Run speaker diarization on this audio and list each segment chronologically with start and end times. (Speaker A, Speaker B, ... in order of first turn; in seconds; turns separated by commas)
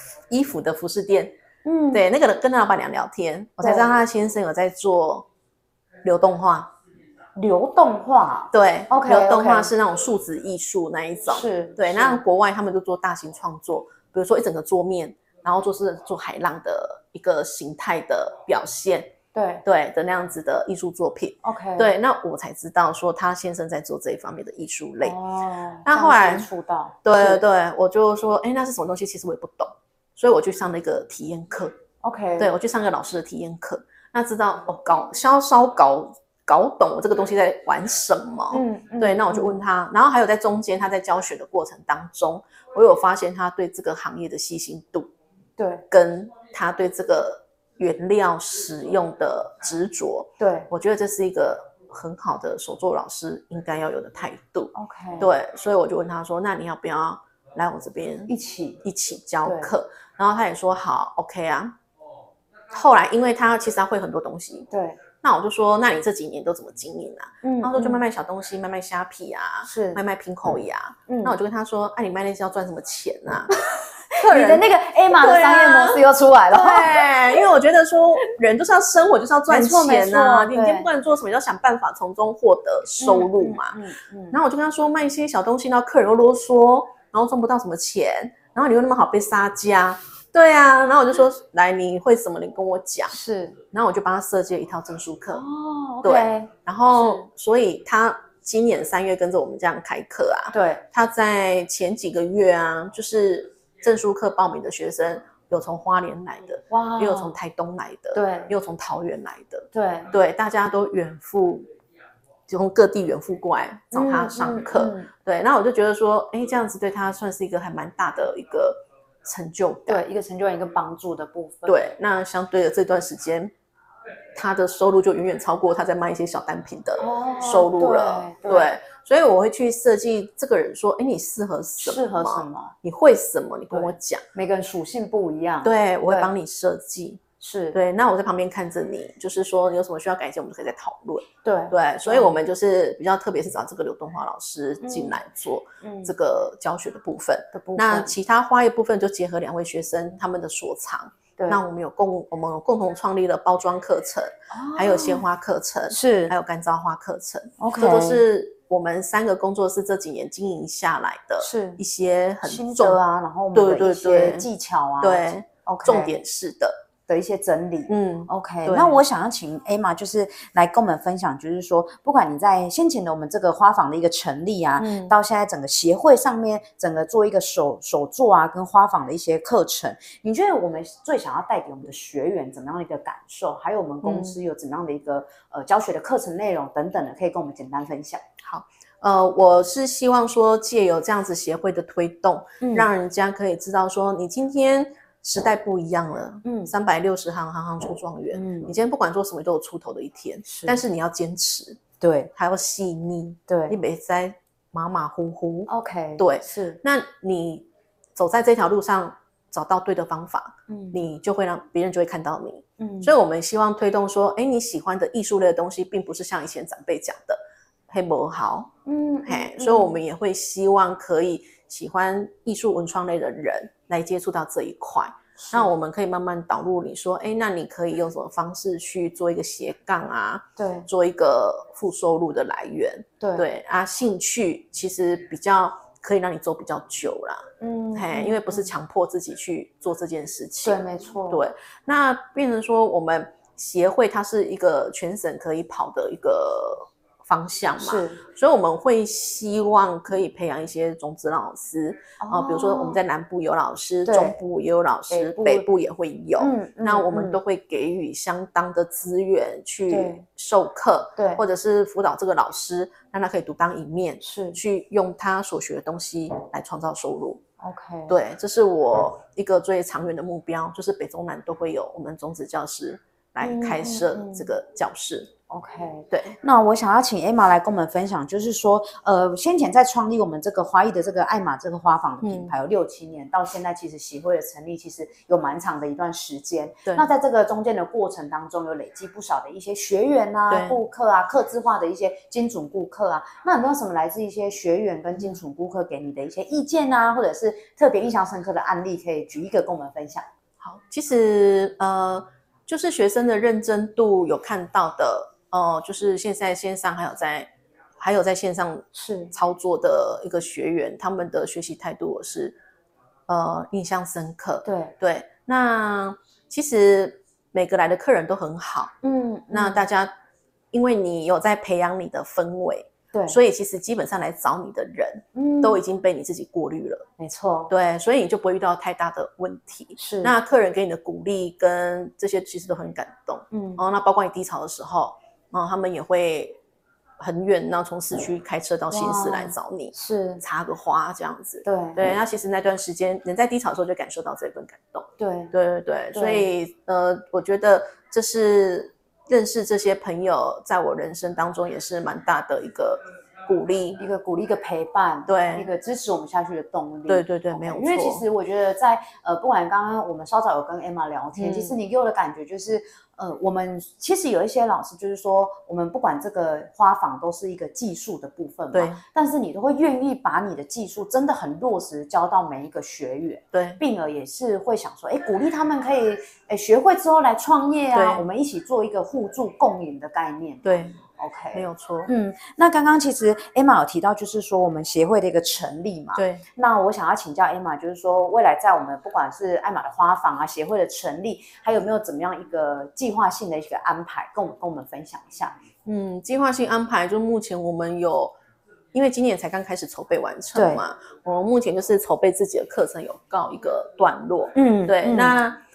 Speaker A: 0.3-1.3, Speaker B: 1.6-2.0, Speaker A: 1.9-5.3, Speaker B: 3.6-4.0, Speaker A: 6.0-6.7, Speaker B: 7.3-9.7, Speaker A: 8.5-19.1, Speaker B: 11.3-12.2, Speaker B: 19.3-19.6, Speaker A: 19.6-25.1, Speaker B: 21.4-21.9, Speaker B: 25.0-27.4, Speaker A: 25.9-26.5, Speaker A: 27.0-31.7, Speaker B: 32.0-32.5, Speaker A: 32.4-45.1, Speaker B: 38.5-39.6, Speaker B: 45.6-45.8, Speaker A: 45.9-58.3, Speaker B: 50.4-50.7, Speaker B: 54.7-55.3, Speaker B: 58.3-58.8, Speaker A: 58.8-61.7, Speaker B: 59.4-59.7, Speaker A: 62.7-64.7, Speaker B: 64.7-65.0, Speaker A: 65.2-83.8, Speaker B: 67.4-68.0, Speaker B: 69.6-70.6, Speaker B: 71.1-71.4, Speaker B: 74.2-77.4, Speaker B: 79.5-80.9, Speaker B: 83.0-84.4, Speaker A: 84.3-93.1, Speaker B: 93.1-93.6, Speaker A: 93.7-95.4, Speaker B: 95.3-97.2, Speaker A: 96.0-111.7, Speaker B: 100.5-100.8, Speaker B: 106.7-107.3, Speaker B: 108.1-108.5, Speaker B: 109.7-110.1, Speaker A: 112.5-120.0, Speaker B: 113.9-115.1, Speaker B: 119.9-121.8, Speaker A: 121.7-123.5, Speaker A: 124.3-134.2, Speaker B: 127.0-128.7, Speaker B: 131.8-132.7, Speaker B: 133.7-136.3, Speaker A: 135.6-137.2, Speaker B: 137.4-137.8, Speaker A: 137.7-163.0, Speaker B: 141.4-142.4, Speaker B: 144.8-145.2, Speaker B: 145.8-146.1, Speaker B: 147.5-148.1, Speaker B: 151.4-151.6, Speaker B: 154.5-155.2, Speaker B: 155.9-156.3, Speaker B: 157.6-158.2, Speaker B: 161.4-161.8, Speaker B: 162.4-166.2, Speaker A: 163.5-164.5, Speaker A: 165.0-166.7, Speaker B: 167.1-188.2, Speaker A: 167.9-169.0, Speaker A: 174.8-175.2, Speaker A: 184.0-184.4, Speaker A: 188.4-201.8, Speaker B: 192.6-192.9, Speaker B: 196.4-196.7, Speaker B: 198.3-198.7, Speaker B: 200.4-200.8, Speaker B: 202.0-202.3, Speaker A: 202.3-217.4, Speaker B: 203.5-203.8, Speaker B: 205.7-206.8, Speaker B: 210.7-211.1, Speaker B: 212.8-213.1, Speaker A: 217.9-218.7, Speaker B: 218.8-220.0, Speaker A: 219.2-267.4, Speaker B: 225.4-225.7, Speaker B: 230.6-230.9, Speaker B: 233.2-233.4, Speaker B: 237.6-238.7, Speaker B: 240.6-241.4, Speaker B: 247.8-248.2, Speaker B: 252.2-253.0, Speaker B: 254.1-254.4, Speaker B: 255.1-255.7, Speaker B: 256.4-257.4, Speaker B: 259.9-260.2, Speaker B: 261.2-261.4, Speaker B: 264.2-264.6, Speaker B: 267.6-268.1, Speaker A: 268.1-275.3, Speaker B: 273.4-274.5, Speaker B: 275.5-300.3, Speaker A: 276.1-276.4, Speaker A: 282.2-282.5, Speaker A: 290.5-290.8, Speaker A: 300.6-312.6, Speaker B: 308.9-309.3, Speaker A: 313.3-318.9, Speaker B: 314.6-314.9, Speaker B: 319.0-319.8, Speaker A: 319.5-320.1, Speaker A: 320.7-327.1, Speaker B: 323.1-323.4, Speaker B: 325.3-325.8, Speaker B: 327.2-327.7, Speaker A: 327.7-336.6, Speaker B: 330.0-330.3, Speaker B: 333.5-333.8, Speaker A: 337.2-354.0, Speaker B: 338.9-340.4, Speaker B: 341.6-342.0, Speaker B: 345.2-345.5, Speaker B: 346.1-346.5, Speaker B: 354.0-395.6, Speaker A: 355.3-355.7, Speaker A: 357.1-358.2, Speaker A: 361.4-361.7, Speaker A: 368.7-369.0, Speaker A: 373.5-373.8, Speaker A: 377.9-378.2, Speaker A: 380.6-381.0, Speaker A: 381.5-382.1, Speaker A: 386.1-386.4, Speaker A: 395.8-398.3, Speaker A: 398.9-405.6, Speaker B: 400.5-400.8, Speaker B: 404.5-405.4